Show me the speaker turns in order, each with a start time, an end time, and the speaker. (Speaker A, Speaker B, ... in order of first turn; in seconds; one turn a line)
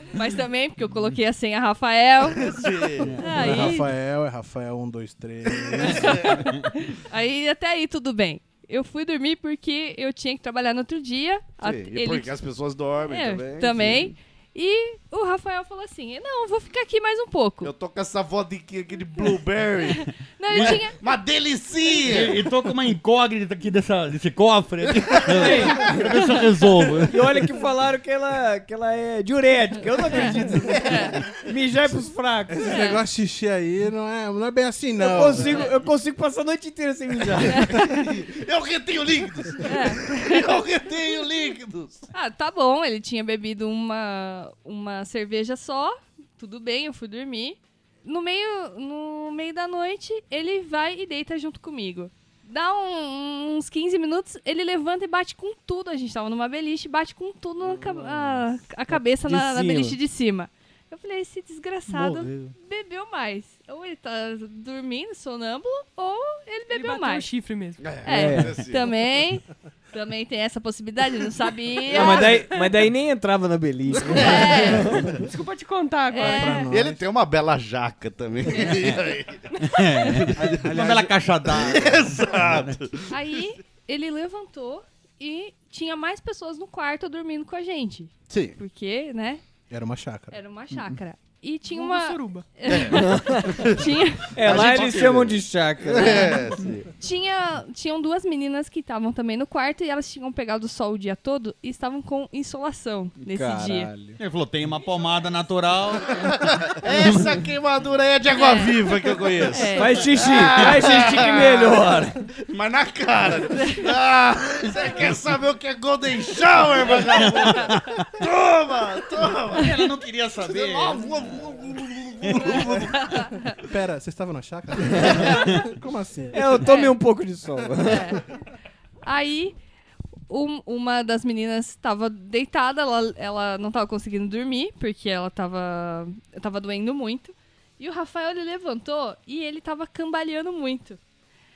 Speaker A: 0.1-3.9
Speaker B: 2.2-3.2
Speaker C: 3.2-6.4
Speaker B: 5.5-6.4
Speaker A: 5.9-12.3
Speaker B: 11.6-14.2
Speaker A: 13.1-17.7
Speaker B: 17.6-22.4
Speaker A: 19.9-21.0
Speaker D: 20.5-20.8
Speaker D: 22.1-27.1
Speaker B: 24.9-25.8
Speaker E: 25.3-26.1
Speaker E: 27.1-30.9
Speaker A: 30.1-31.2
Speaker B: 30.7-31.3
Speaker E: 31.4-32.7
Speaker C: 32.5-35.7
Speaker A: 32.7-33.0
Speaker E: 35.0-37.6
Speaker A: 37.5-38.1
Speaker B: 37.6-42.1
Speaker A: 39.6-40.6
Speaker A: 42.1-67.3
Speaker E: 58.9-60.0
Speaker B: 61.9-62.5
Speaker F: 66.7-68.0
Speaker B: 67.8-68.9
Speaker A: 68.0-72.4
Speaker E: 68.1-68.5
Speaker E: 71.9-75.2
Speaker F: 71.9-72.7
Speaker B: 74.1-75.0
Speaker A: 74.1-75.0
Speaker F: 75.2-76.7
Speaker A: 76.1-76.8
Speaker C: 76.2-77.0
Speaker B: 76.7-80.7
Speaker A: 78.5-78.9
Speaker D: 79.6-82.8
Speaker C: 80.7-81.0
Speaker B: 81.5-83.5
Speaker A: 83.1-89.4
Speaker B: 88.3-88.6
Speaker C: 89.7-90.4
Speaker A: 90.3-94.8
Speaker F: 91.7-92.5
Speaker B: 92.7-96.9
Speaker E: 93.0-93.4
Speaker E: 94.3-96.3
Speaker A: 96.0-103.9
Speaker E: 103.2-104.2
Speaker D: 104.2-106.3
Speaker B: 106.2-112.0
Speaker D: 106.9-107.2
Speaker A: 108.3-108.8
Speaker A: 109.5-110.3
Speaker E: 109.8-112.2
Speaker B: 112.5-119.8
Speaker D: 117.1-118.0
Speaker D: 119.5-121.1
Speaker B: 120.4-123.3
Speaker A: 123.0-123.5
Speaker C: 123.6-126.7
Speaker A: 125.1-125.6
Speaker E: 126.3-128.2
Speaker A: 126.7-127.0
Speaker A: 127.8-128.3
Speaker A: 129.0-129.6
Speaker A: 130.3-141.0